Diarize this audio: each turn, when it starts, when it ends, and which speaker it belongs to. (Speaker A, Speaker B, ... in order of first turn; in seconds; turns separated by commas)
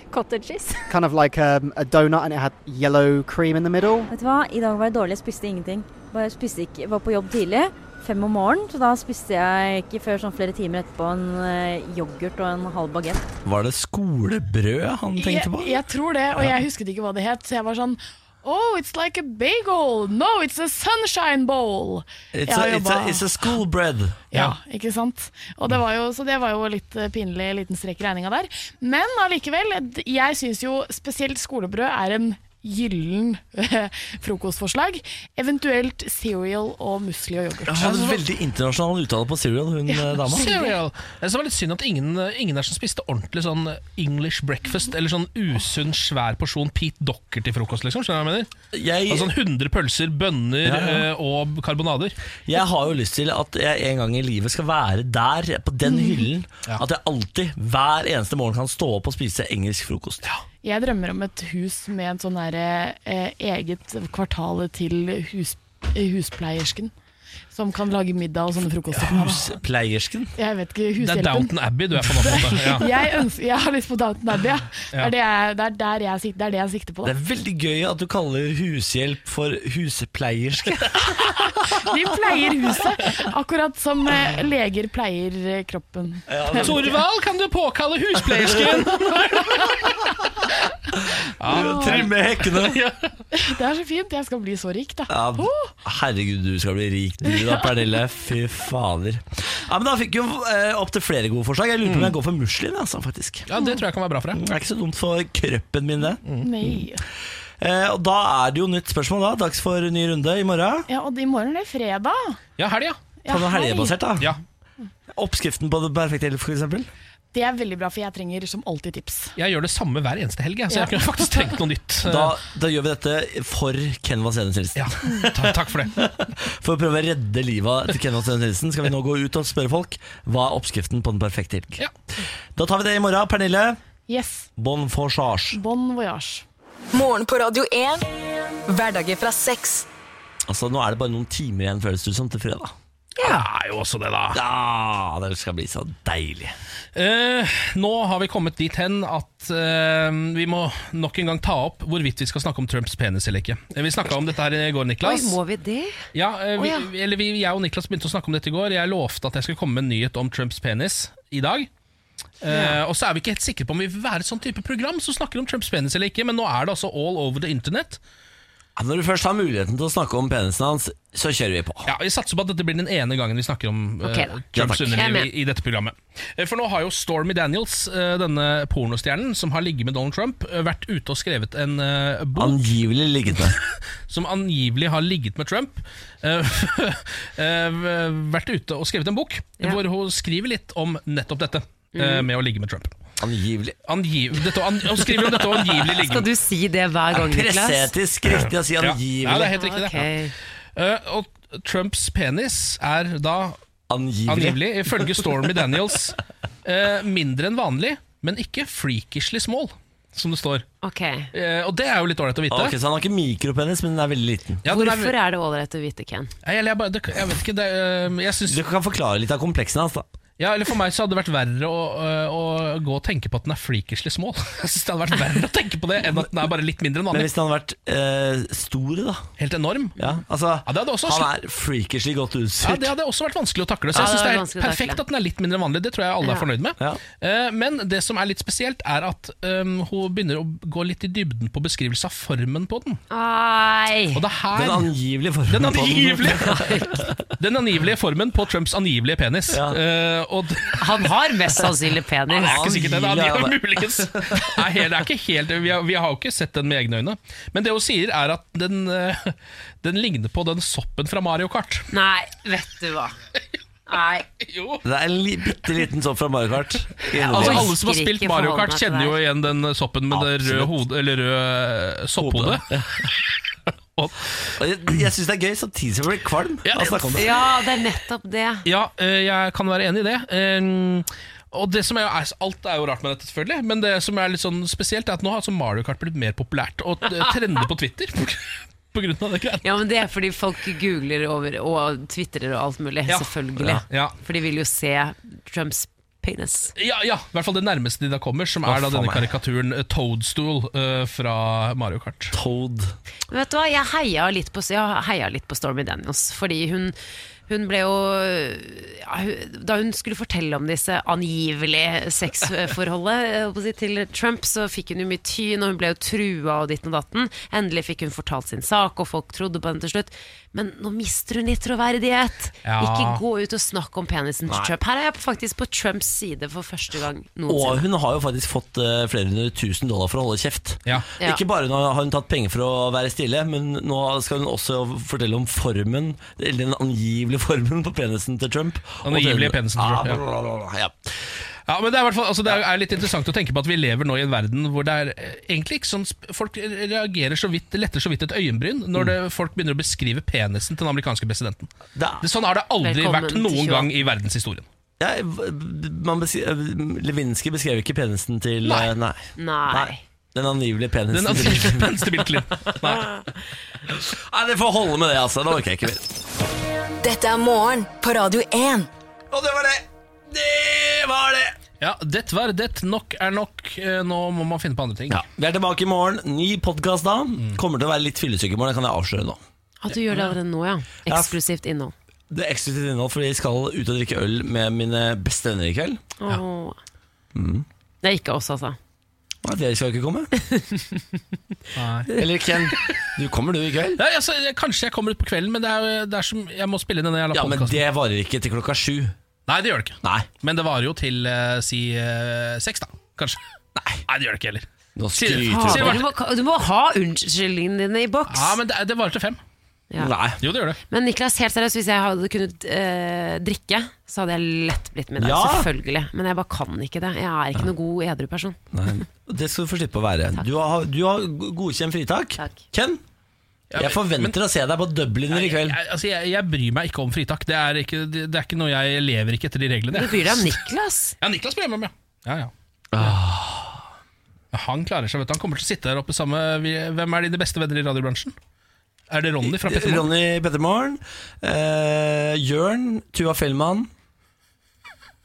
Speaker A: 0.9-4.1, Speaker B: 4.1-13.2, Speaker C: 13.4-15.8, Speaker D: 15.1-23.6, Speaker C: 22.3-24.2, Speaker D: 24.3-38.1, Speaker C: 37.7-40.5, Speaker E: 37.8-38.2, Speaker D: 39.9-40.8, Speaker E: 40.3-48.5, Speaker C: 48.7-49.3, Speaker E: 49.1-52.1, Speaker C: 50.6-51.1, Speaker C: 52.5-60.3, Speaker D: 55.9-56.2, Speaker D: 60.6-66.9, Speaker D: 67.5-69.4, Speaker C: 69.0-70.3, Speaker E: 69.1-69.4, Speaker D: 70.4-77.1, Speaker E: 71.0-72.9, Speaker C: 77.0-81.8, Speaker D: 81.2-86.9, Speaker C: 86.3-87.0, Speaker E: 86.6-89.8, Speaker C: 88.4-89.7, Speaker C: 90.9-92.8, Speaker E: 91.4-93.2, Speaker D: 91.5-92.1, Speaker D: 93.3-95.7, Speaker C: 95.1-103.5, Speaker D: 97.2-98.0, Speaker E: 101.8-102.1, Speaker E: 103.5-104.4, Speaker D: 103.5-103.8, Speaker C: 104.3-106.2, Speaker E: 106.2-106.5, Speaker D: 106.4-107.0, Speaker C: 107.6-110.9, Speaker D: 110.9-112.4, Speaker E: 112.6-113.0, Speaker D: 113.2-114.0, Speaker C: 113.3-114.3, Speaker C: 115.1-116.9, Speaker D: 117.3-119.3, Speaker E: 119.3-122.3, Speaker D: 120.7-121.6, Speaker C: 122.0-131.8, Speaker E: 124.8-125.9, Speaker C: 132.6-133.8, Speaker D: 134.1-134.5, Speaker C: 134.6-135.6, Speaker D: 135.5-136.4, Speaker F: 136.9-138.1, Speaker F: 138.7-139.9, Speaker C: 140.5-142.7, Speaker G: 143.2-143.4, Speaker E: 143.2-144.4, Speaker C: 144.3-146.6, Speaker E: 146.9-155.4, Speaker G: 155.0-156.0, Speaker E: 156.1-161.7, Speaker G: 156.6-156.9, Speaker E: 162.4-168.0, Speaker G: 162.5-162.8, Speaker C: 168.8-171.9, Speaker E: 171.8-182.6, Speaker G: 174.0-175.3, Speaker C: 174.5-174.9, Speaker C: 182.3-183.6, Speaker E: 183.3-192.9, Speaker G: 191.9-192.3, Speaker C: 193.2-193.8, Speaker E: 193.8-196.3, Speaker G: 195.7-197.9, Speaker C: 197.1-199.5, Speaker E: 198.4-200.2, Speaker G: 199.5-200.3, Speaker E: 200.7-203.6, Speaker C: 203.9-205.4, Speaker E: 204.3-210.7, Speaker G: 210.8-211.3, Speaker E: 211.3-212.8, Speaker C: 212.5-214.6, Speaker E: 214.6-215.1, Speaker G: 214.7-216.3, Speaker E: 216.4-218.6, Speaker C: 218.5-220.1, Speaker E: 220.4-227.3, Speaker C: 227.1-229.3, Speaker E: 229.4-230.0, Speaker C: 230.0-232.9, Speaker E: 230.7-231.3, Speaker E: 232.6-243.0, Speaker G: 233.9-235.0, Speaker G: 236.2-236.5, Speaker G: 243.1-244.2, Speaker E: 244.1-244.9, Speaker C: 244.5-247.1, Speaker E: 245.5-251.1, Speaker G: 246.6-246.9, Speaker C: 249.5-249.8, Speaker G: 250.8-252.6, Speaker E: 252.3-261.9, Speaker C: 252.4-254.6, Speaker G: 261.9-263.1, Speaker G: 263.9-264.2, Speaker E: 264.4-264.8, Speaker C: 264.8-267.7, Speaker E: 267.1-272.7, Speaker G: 267.3-269.2, Speaker C: 270.1-270.7, Speaker C: 272.2-273.0, Speaker E: 273.9-274.3, Speaker C: 274.5-277.3, Speaker E: 276.6-277.3, Speaker G: 277.1-278.6, Speaker E: 278.6-289.6, Speaker G: 289.6-296.7, Speaker E: 293.1-294.2, Speaker E: 296.8-302.3, Speaker C: 298.6-299.3, Speaker C: 302.3-302.9, Speaker G: 303.3-306.9, Speaker G: 307.5-327.9, Speaker E: 322.6-323.2, Speaker C: 327.5-340.9, Speaker E: 339.0-340.2, Speaker E: 341.7-354.7, Speaker C: 351.9-352.3, Speaker G: 352.8-353.9, Speaker C: 355.0-362.1, Speaker E: 358.6-358.9, Speaker G: 359.4-360.0, Speaker E: 361.1-363.1, Speaker C: 363.9-366.1, Speaker F: 367.0-368.9, Speaker C: 369.3-371.5, Speaker E: 371.8-375.2, Speaker C: 375.1-379.4, Speaker G: 379.8-381.9, Speaker C: 381.1-381.3, Speaker C: 382.3-386.0, Speaker G: 386.2-386.8, Speaker C: 387.3-387.6, Speaker G: 388.0-388.8, Speaker C: 389.4-390.3, Speaker G: 390.4-391.0, Speaker E: 391.7-392.1, Speaker C: 392.1-394.0, Speaker E: 394.0-397.8, Speaker C: 397.3-399.1, Speaker E: 399.5-403.4, Speaker C: 400.0-400.3, Speaker C: 403.8-404.0, Speaker E: 404.1-406.1, Speaker C: 404.9-406.0, Speaker G: 405.5-408.6, Speaker E: 408.3-409.4, Speaker C: 410.0-410.4, Speaker E: 410.4-410.8, Speaker G: 410.9-418.6, Speaker C: 415.2-415.7, Speaker C: 418.7-423.0, Speaker E: 423.7-424.4, Speaker C: 423.8-425.8, Speaker E: 425.3-430.6, Speaker G: 429.9-431.1, Speaker E: 431.2-433.2, Speaker C: 432.9-433.9, Speaker E: 434.5-438.3, Speaker E: 439.1-440.1, Speaker C: 439.4-443.9